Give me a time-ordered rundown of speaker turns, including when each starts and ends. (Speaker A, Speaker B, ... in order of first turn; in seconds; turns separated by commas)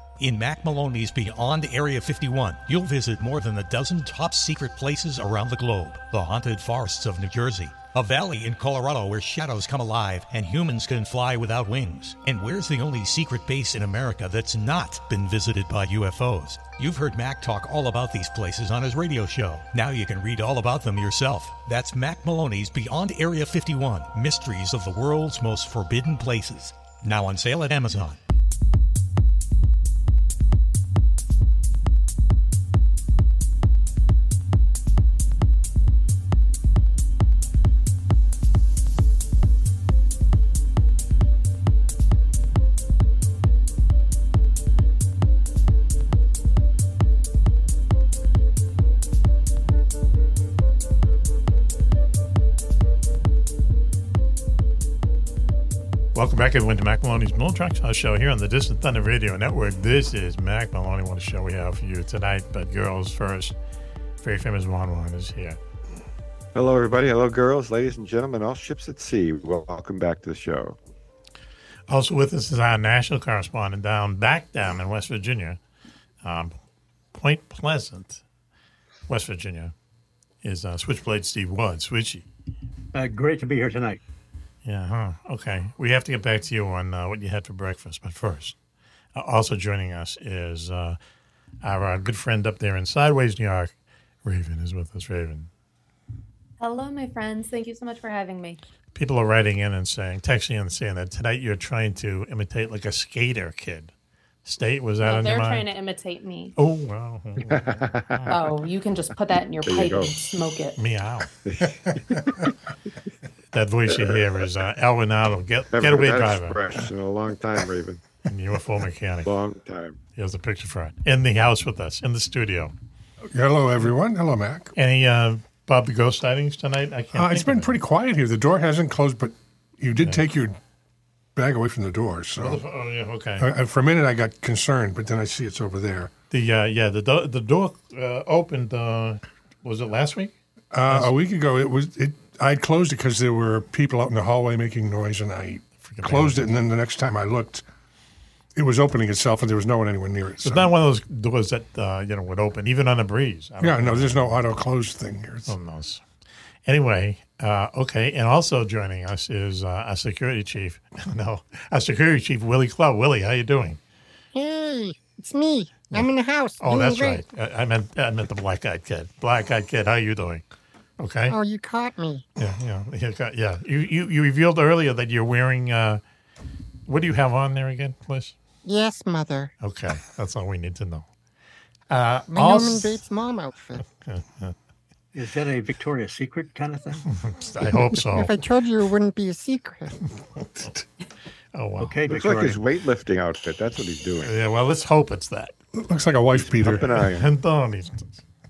Speaker A: 0.2-28.2, Speaker B: 56.1-63.5, Speaker B: 64.2-65.6, Speaker C: 66.5-70.8, Speaker B: 71.9-75.6, Speaker B: 76.2-76.5, Speaker B: 77.1-78.2, Speaker B: 79.1-79.7, Speaker B: 80.4-82.2, Speaker D: 82.9-84.0, Speaker B: 84.6-88.5, Speaker B: 89.1-91.0, Speaker B: 91.6-93.7, Speaker B: 94.2-95.5, Speaker E: 96.6-98.6, Speaker B: 98.9-103.9, Speaker B: 104.4-105.7, Speaker E: 105.0-106.5, Speaker B: 106.6-108.3, Speaker C: 107.4-108.5, Speaker E: 108.3-110.8, Speaker C: 109.6-110.1, Speaker B: 110.8-111.3, Speaker C: 111.4-112.5, Speaker B: 113.5-116.6, Speaker C: 113.9-114.2, Speaker C: 115.7-118.0, Speaker B: 118.2-119.3, Speaker C: 119.2-120.0, Speaker B: 120.2-122.7, Speaker F: 123.3-124.7, Speaker B: 124.8-127.7, Speaker F: 127.1-130.6, Speaker F: 131.3-132.6, Speaker B: 132.4-133.5, Speaker F: 133.4-136.1, Speaker B: 136.3-140.3, Speaker F: 140.7-147.6, Speaker B: 145.8-146.4, Speaker F: 148.5-150.7, Speaker B: 150.4-154.4, Speaker F: 153.6-155.5, Speaker B: 155.5-156.0, Speaker B: 156.7-163.8, Speaker G: 164.3-167.2, Speaker B: 166.6-170.4, Speaker B: 171.0-171.3, Speaker G: 171.3-172.2, Speaker B: 172.4-176.0, Speaker B: 176.9-178.3, Speaker G: 178.6-179.5, Speaker B: 179.6-181.1, Speaker B: 181.9-183.0, Speaker G: 182.3-183.8, Speaker B: 184.0-184.5, Speaker D: 185.1-187.0, Speaker B: 187.1-188.3, Speaker G: 188.1-190.0, Speaker B: 191.5-191.9, Speaker D: 191.8-192.6, Speaker C: 192.1-194.3, Speaker B: 194.2-195.5, Speaker F: 195.7-196.9, Speaker C: 196.3-197.3, Speaker B: 196.9-198.2